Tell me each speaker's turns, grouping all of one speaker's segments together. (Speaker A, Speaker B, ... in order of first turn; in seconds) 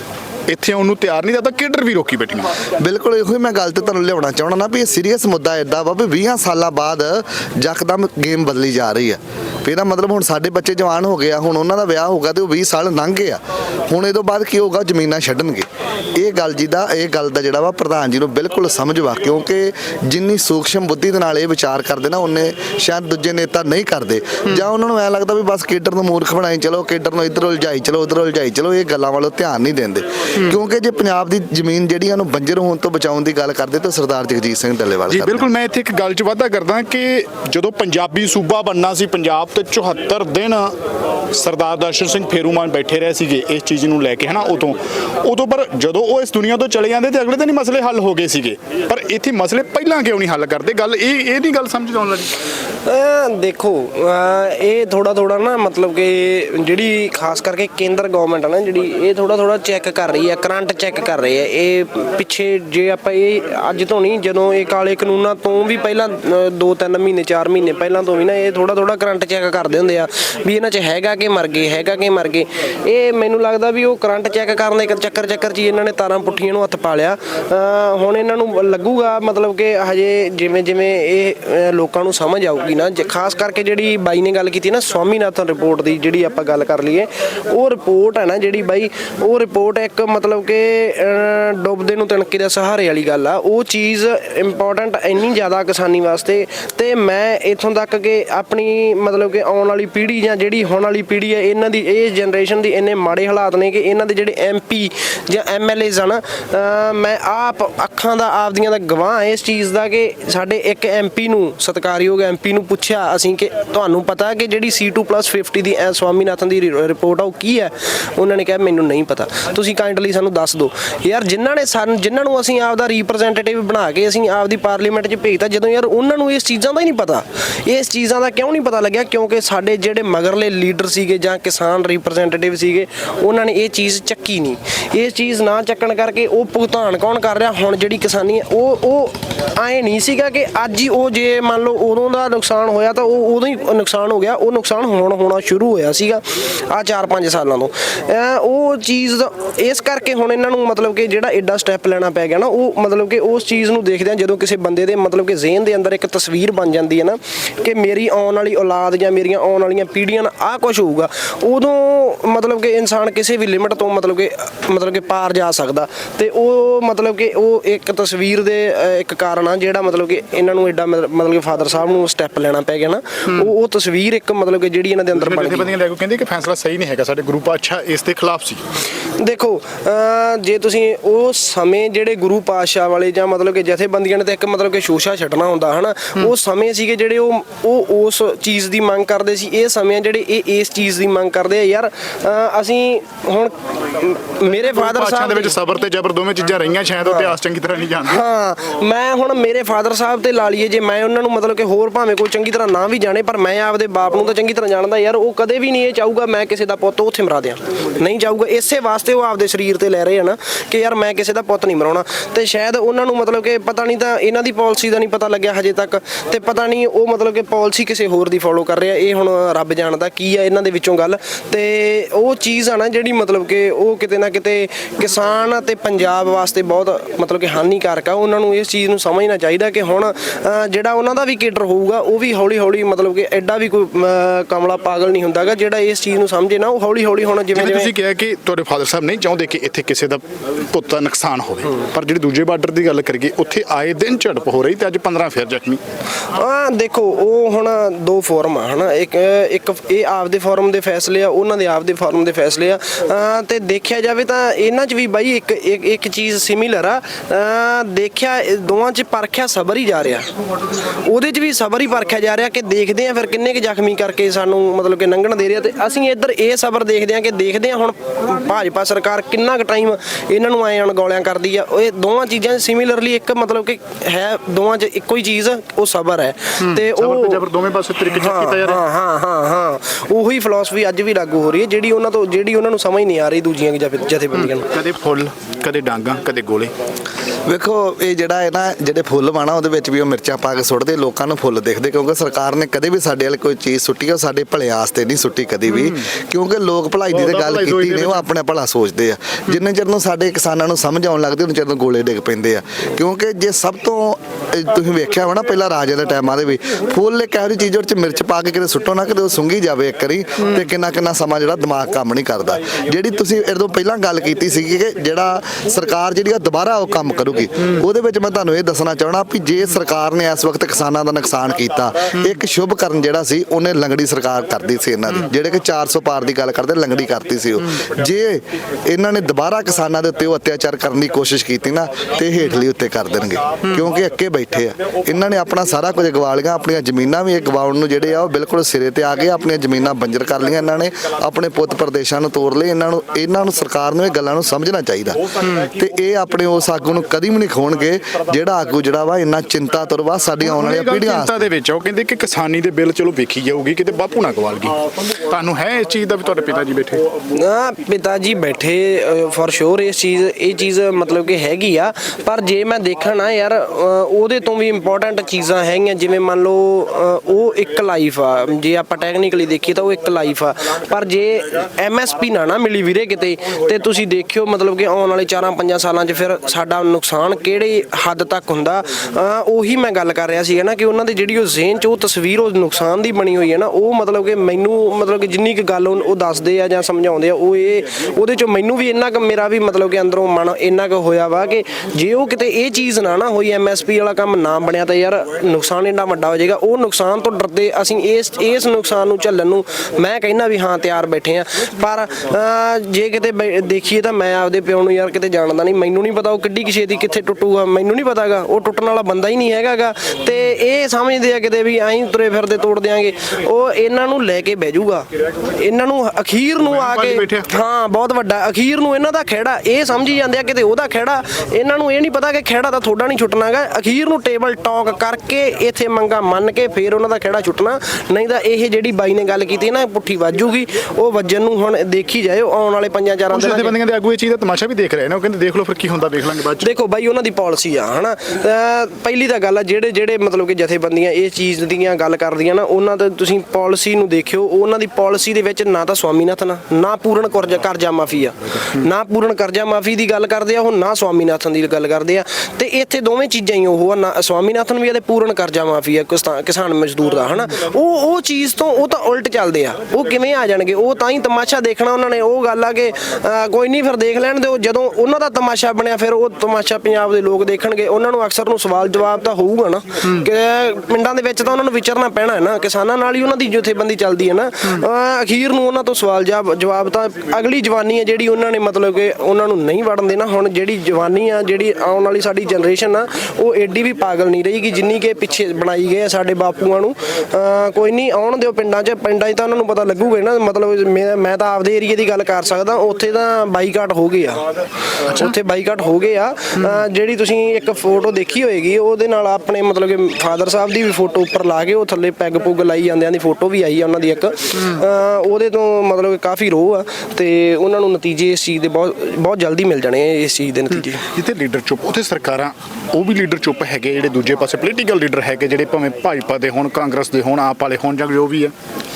Speaker A: 0.5-2.5, 35.1-40.7, 41.3-52.3, 175.1-178.6, 194.5-198.2, 237.5-245.8, 276.6-278.8, 284.3-286.7, 295.7-296.0, 297.2-298.2, 350.4-357.0, 416.6-417.5, 433.3-436.7, 511.0-518.5
Speaker B: 2.8-35.5, 287.5-351.4
Speaker C: 52.9-175.7, 179.2-195.5, 197.0-197.3, 198.1-237.9, 246.3-277.5, 278.1-284.7, 357.3-433.7, 436.6-494.5, 495.1-511.0